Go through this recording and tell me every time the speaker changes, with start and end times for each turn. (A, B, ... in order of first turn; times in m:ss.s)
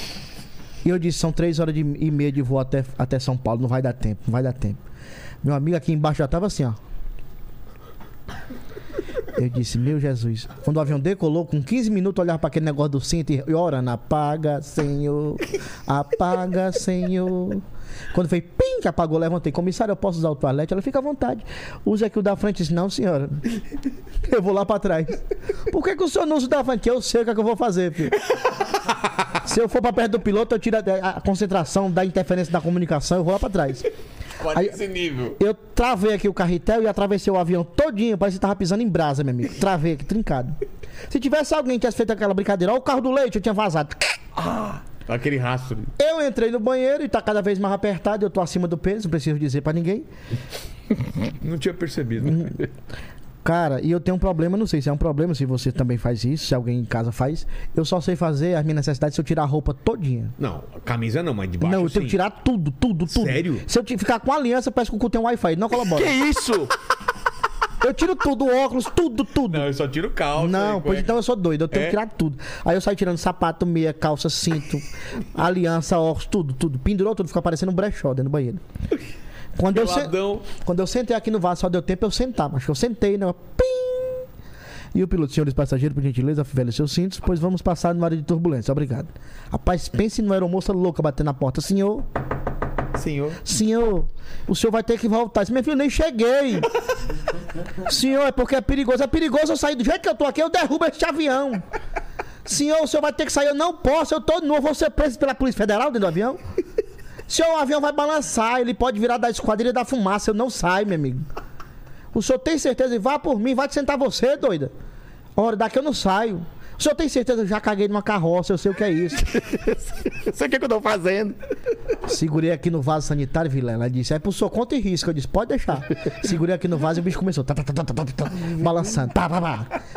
0:00.8-0:04.8 A
0:05.4-0:06.8 A
0:09.3-0:23.4 A
0:24.2-0:28.2 A
0:29.4-0:33.9 A
0:34.4-0:35.4 B
0:34.5-0:34.8 A
0:35.4-0:40.6 A
0:41.1-0:44.2 A
0:44.4-0:45.9 B
0:46.0-0:50.1 A
0:51.4-0:52.6 B
0:52.2-0:52.6 A
0:53.4-1:00.3 A
1:00.4-1:02.2 B
1:01.6-1:06.1 A
1:03.1-1:03.6 B
1:05.9-1:06.7 C
1:07.8-1:09.7 A
1:09.5-1:11.1 B
1:10.3-1:18.6 A
1:11.7-1:12.0 B
1:19.6-1:24.3 A
1:19.7-1:20.4 B
1:24.9-1:32.0 A
1:32.9-1:33.4 B
1:33.4-1:36.7 A
1:37.8-1:41.6 A
1:42.4-1:46.4 A
1:47.3-1:51.2 A
1:52.1-1:54.7 A
1:55.4-1:59.3 A
1:59.3-2:01.4 C
2:02.0-2:09.7 A